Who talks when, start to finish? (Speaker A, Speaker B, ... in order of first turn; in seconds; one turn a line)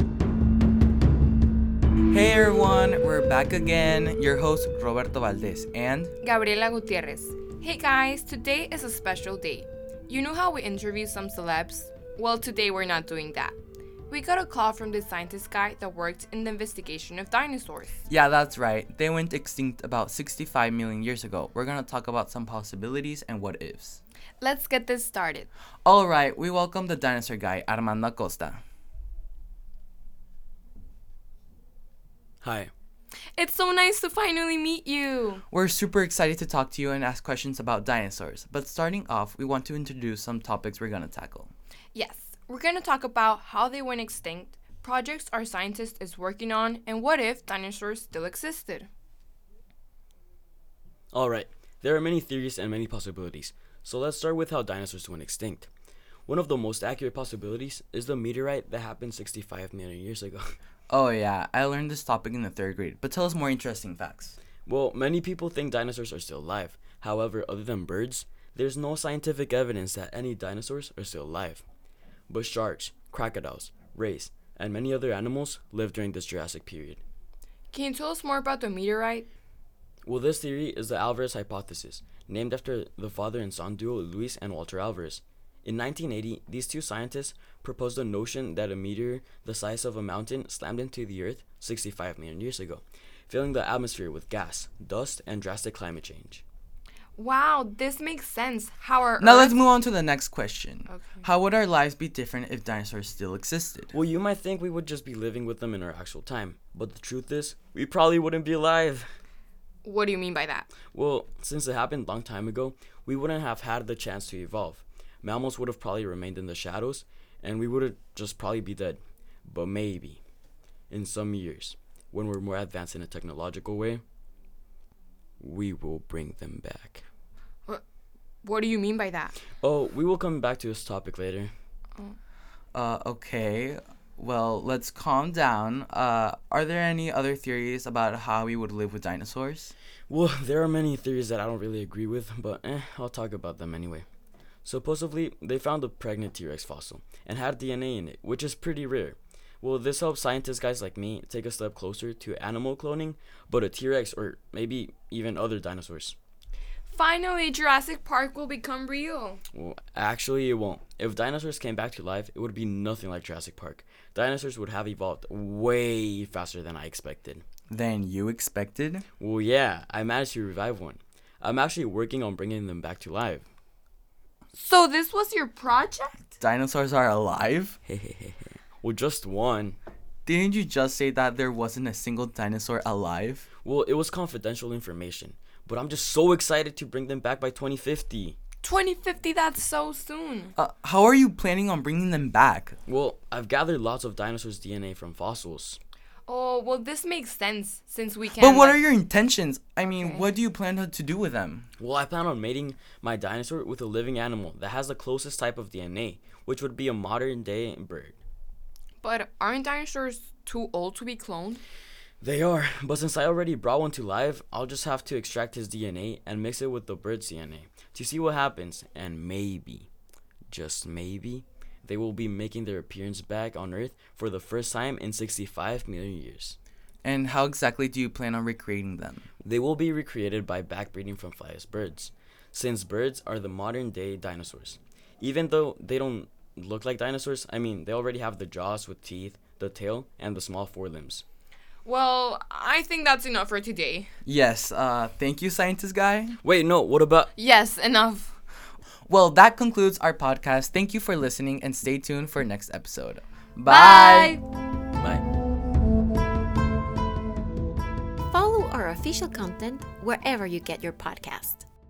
Speaker A: 2.1-6.1
Speaker B: 6.2-13.6
Speaker B: 14.1-18.0
Speaker A: 18.1-24.0
Speaker B: 24.4-25.5
Speaker A: 25.8-28.6
Speaker C: 32.4-32.7
Speaker B: 33.3-35.4
Speaker A: 35.5-41.5
Speaker B: 41.9-48.9
Speaker C: 51.1-55.7
Speaker C: 56.3-60.5
Speaker A: 60.9-64.4
Speaker C: 64.7-71.6
Speaker C: 72.3-77.0
Speaker B: 77.7-79.3
Speaker C: 80.0-96.4
Speaker B: 97.2-99.6
Speaker A: 99.2-103.9
Speaker B: 100.9-101.2
Speaker C: 103.9-109.1
Speaker B: 109.8-110.8
Speaker C: 110.8-120.2
Speaker C: 120.9-124.0
Speaker C: 125.4-127.0
Speaker B: 128.4-129.4
Speaker C: 129.5-131.5
Speaker A: 132.7-139.7
Speaker C: 140.1-144.1
Speaker C: 144.6-156.2
Speaker B: 156.8-159.4
Speaker C: 159.5-167.4
Speaker A: 167.7-169.0
Speaker C: 169.2-173.5
Speaker B: 174.5-176.2
Speaker A: 176.4-177.8
Speaker C: 177.8-179.8
Speaker A: 180.2-183.5
Speaker C: 183.6-188.4
Speaker B: 188.6-190.5
Speaker A: 190.6-192.8
Speaker C: 192.9-195.8
Speaker B: 196.3-198.8
Speaker A: 198.4-201.7
Speaker B: 199.9-200.3
Speaker C: 201.8-208.2
Speaker B: 209.0-211.6
Speaker C: 212.2-219.9
Speaker C: 220.5-226.6
Speaker A: 227.0-229.3
Speaker C: 229.4-241.2
Speaker B: 241.8-244.1
Speaker A: 244.2-246.4
Speaker C: 246.4-247.3
Speaker B: 247.3-248.3
Speaker A: 249.1-254.4
Speaker B: 253.6-254.4
Speaker C: 255.0-255.2
Speaker D: 258.3-261.6